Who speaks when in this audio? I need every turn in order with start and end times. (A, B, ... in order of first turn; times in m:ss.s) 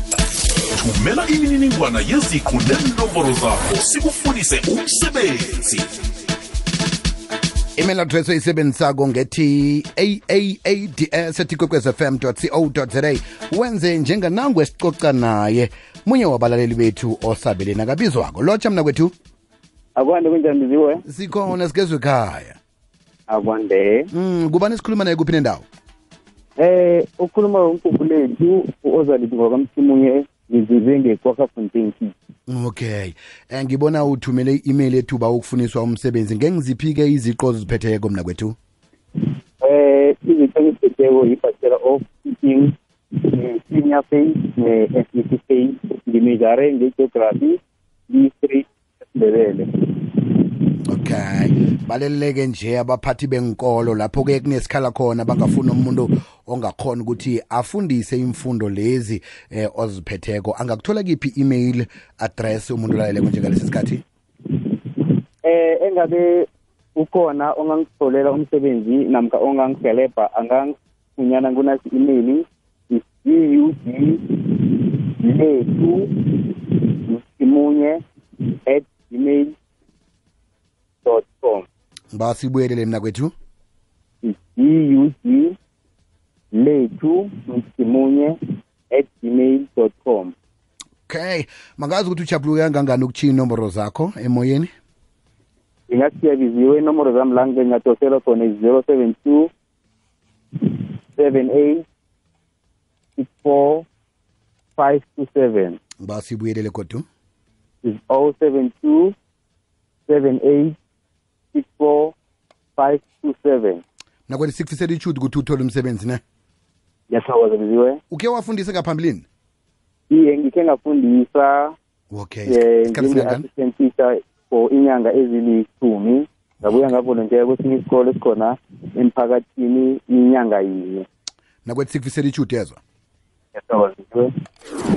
0:00.7-0:05.9 A
0:07.8-0:19.1 B
0:20.0-0:21.0 C
0:21.1-0:22.6 B
0:23.3-0:24.1 C
0:24.1-0:25.6 B
0:26.6-0:32.2 C
0:32.5-0:38.6 B
0:39.6-0:50.3 C
0:50.9-1:04.0 B
1:05.4-1:18.0 C
1:18.6-1:19.6 C
1:21.0-1:21.7 C
1:22.1-1:23.3 B
1:24.2-1:25.6 C
1:26.5-1:28.4 C
1:28.9-1:30.4 C
1:31.1-1:34.7 B
1:35.9-1:39.5 C
1:40.6-1:41.9 C
1:43.2-1:43.9 C
1:44.8-1:45.8 C
1:46.0-1:47.0 B
1:47.8-1:49.2 C
1:50.1-1:50.8 C
1:51.5-1:52.2 C
1:52.8-1:53.8 C
1:54.3-1:56.2 B
1:57.1-1:58.0 C
1:58.1-1:59.3 B
2:00.1-2:01.8 C
2:02.1-2:03.5 B
2:02.5-2:11.1 C
2:11.6-2:12.8 B
2:13.5-2:14.3 C